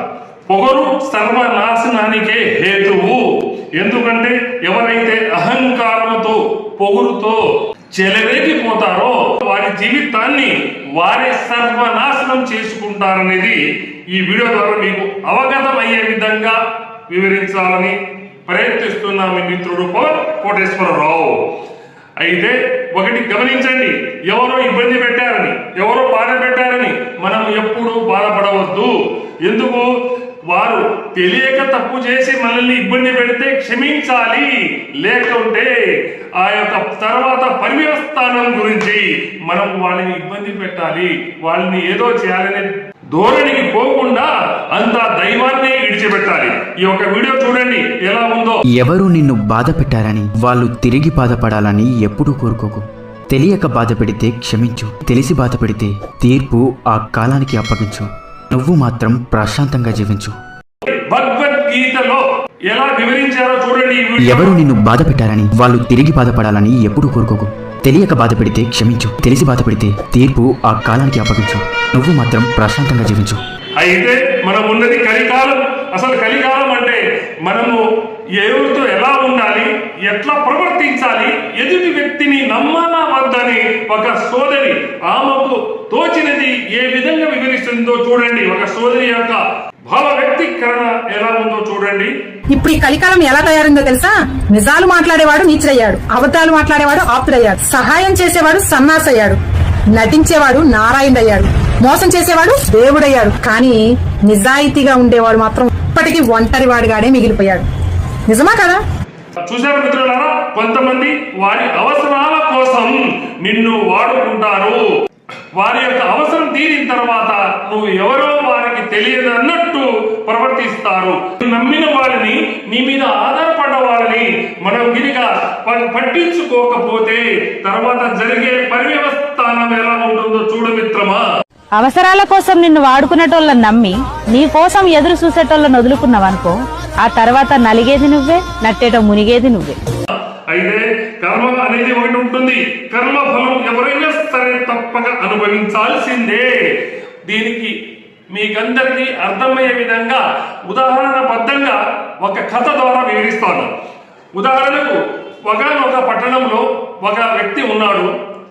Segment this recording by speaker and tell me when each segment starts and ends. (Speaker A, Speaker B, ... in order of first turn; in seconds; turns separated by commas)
Speaker A: 0.5-3.2, Speaker A: 3.8-7.4, Speaker A: 7.9-13.6, Speaker A: 14.1-16.6, Speaker A: 17.1-17.9, Speaker A: 18.5-21.4, Speaker A: 22.2-29.9, Speaker A: 30.4-35.7, Speaker A: 36.4-48.6, Speaker B: 48.7-60.3, Speaker A: 60.9-64.6, Speaker B: 64.2-73.4, Speaker A: 73.8-77.8, Speaker A: 78.4-92.1, Speaker C: 92.5-99.4, Speaker C: 99.9-107.6, Speaker C: 108.3-108.8, Speaker A: 109.4-114.8, Speaker A: 115.5-131.2, Speaker D: 131.8-139.8, Speaker A: 140.5-146.5, Speaker A: 147.2-147.7, Speaker A: 148.3-153.7, Speaker A: 154.3-158.1